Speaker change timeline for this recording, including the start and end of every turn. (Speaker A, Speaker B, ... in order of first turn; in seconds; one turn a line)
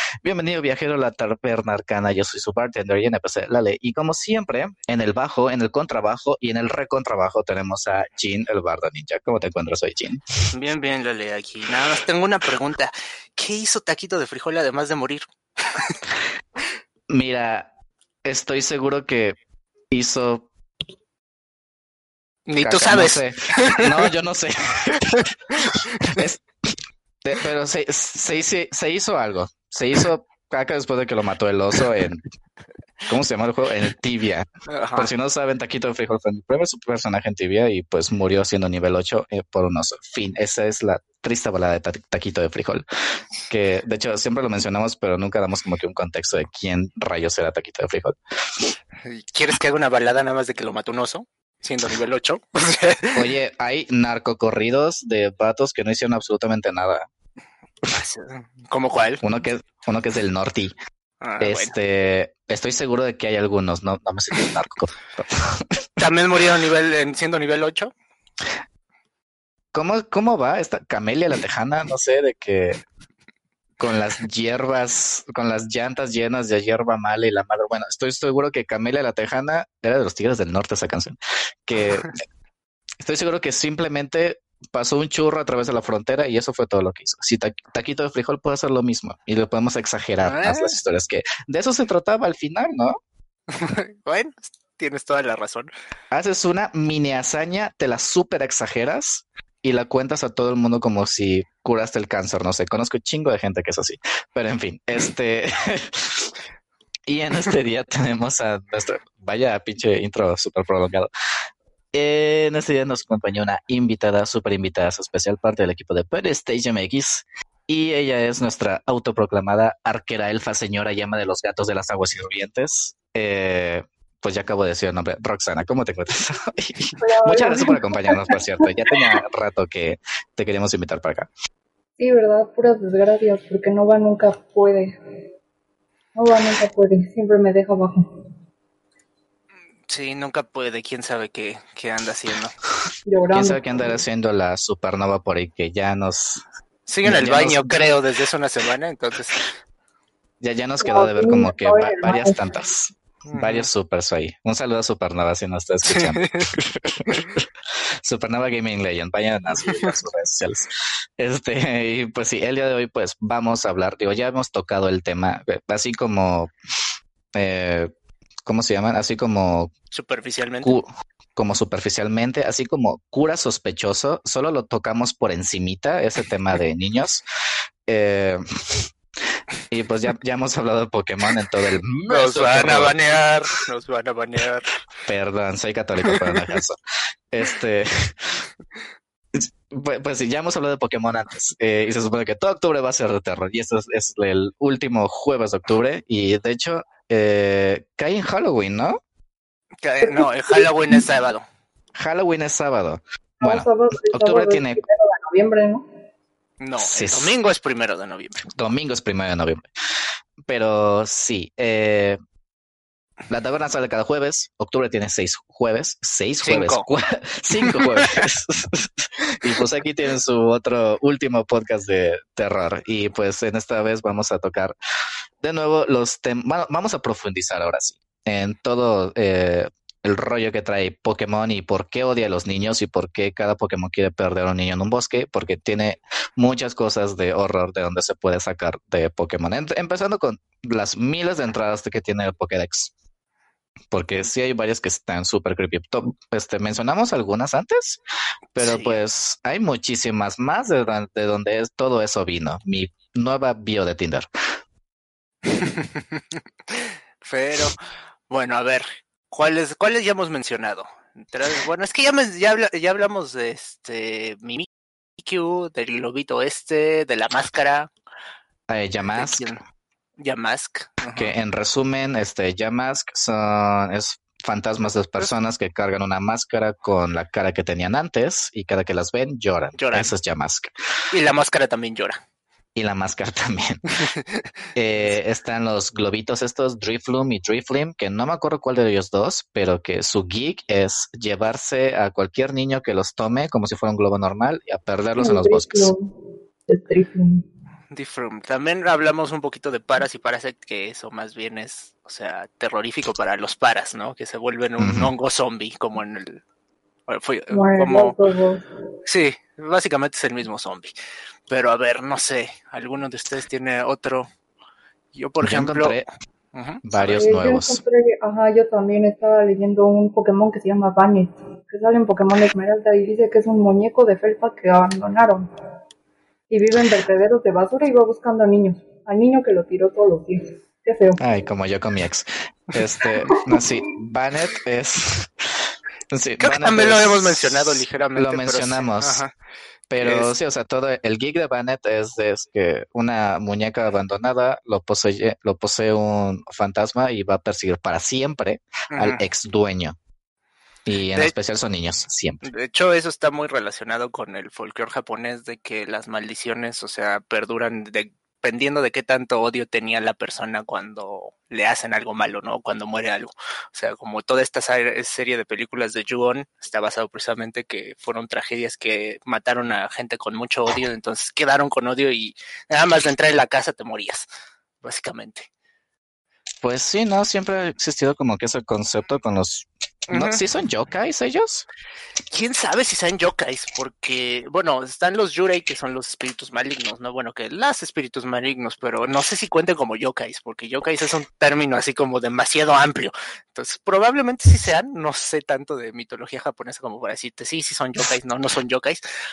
Speaker A: 0.2-10.2
Speaker B: 10.5-16.0
Speaker A: 17.1-17.7
Speaker A: 18.2-19.4
Speaker A: 19.9-20.5
Speaker B: 22.5-24.1
Speaker A: 22.6-25.3
Speaker B: 25.5-26.2
Speaker A: 26.1-32.2
Speaker A: 33.1-42.9
Speaker B: 34.7-35.1
Speaker A: 43.5-48.7
Speaker B: 49.0-53.3
Speaker A: 53.1-57.1
Speaker B: 57.8-59.2
Speaker A: 59.2-60.7
Speaker B: 61.2-61.7
Speaker A: 61.4-65.8
Speaker B: 66.0-67.9
Speaker A: 69.7-72.8
Speaker A: 73.8-82.1
Speaker A: 83.0-93.0
Speaker B: 90.2-90.8
Speaker B: 93.5-95.7
Speaker A: 96.1-106.3
Speaker A: 107.1-111.1
Speaker A: 111.9-131.3
Speaker C: 127.0-128.7
Speaker C: 132.0-134.9
Speaker C: 136.2-138.1
Speaker B: 139.9-142.6
Speaker C: 143.1-144.0
Speaker A: 143.3-146.4
Speaker B: 146.9-149.5
Speaker A: 147.1-147.8
Speaker A: 150.4-157.5
Speaker C: 150.8-152.4
Speaker B: 153.3-153.7
Speaker B: 155.9-156.5
Speaker A: 158.0-166.5
Speaker A: 167.3-167.9
Speaker A: 168.4-169.7
Speaker B: 169.9-170.8
Speaker A: 170.6-177.2
Speaker A: 177.9-178.9
Speaker A: 179.7-183.0
Speaker B: 182.1-184.8
Speaker A: 185.1-186.8
Speaker B: 186.1-186.5
Speaker A: 187.3-188.4
Speaker A: 189.3-199.0
Speaker B: 199.8-201.4
Speaker C: 200.0-201.0
Speaker A: 202.0-204.8
Speaker C: 203.4-205.9
Speaker B: 206.6-208.5
Speaker A: 206.8-207.3
Speaker A: 208.5-209.7
Speaker A: 210.4-212.2
Speaker A: 213.3-224.8
Speaker B: 216.4-216.9
Speaker B: 217.6-218.2
Speaker A: 225.4-242.9
Speaker A: 243.9-248.0
Speaker B: 248.6-249.0
Speaker A: 248.6-254.3
Speaker B: 255.4-257.8
Speaker B: 258.3-264.7
Speaker B: 265.2-267.9
Speaker A: 268.7-269.5
Speaker B: 269.1-269.6
Speaker B: 270.2-271.3
Speaker A: 271.1-280.7
Speaker B: 279.8-280.1
Speaker B: 281.1-282.2
Speaker A: 282.8-283.8
Speaker B: 284.0-284.5
Speaker A: 284.8-295.9
Speaker C: 295.2-296.1
Speaker C: 296.7-297.5
Speaker B: 297.9-306.4
Speaker A: 304.8-305.1
Speaker B: 307.1-308.2
Speaker C: 307.5-308.6
Speaker B: 309.1-310.9
Speaker B: 311.5-314.3
Speaker B: 315.1-316.0
Speaker A: 315.4-316.0
Speaker B: 316.5-317.1
Speaker A: 316.8-317.8
Speaker C: 317.1-325.5
Speaker C: 326.5-331.2
Speaker A: 331.2-339.2
Speaker B: 336.4-339.3
Speaker A: 339.9-350.0
Speaker B: 340.0-340.3
Speaker B: 348.9-349.2
Speaker A: 350.9-352.4
Speaker B: 352.4-374.3
Speaker B: 374.8-375.5
Speaker A: 376.6-381.7
Speaker B: 380.1-380.4
Speaker B: 382.3-399.0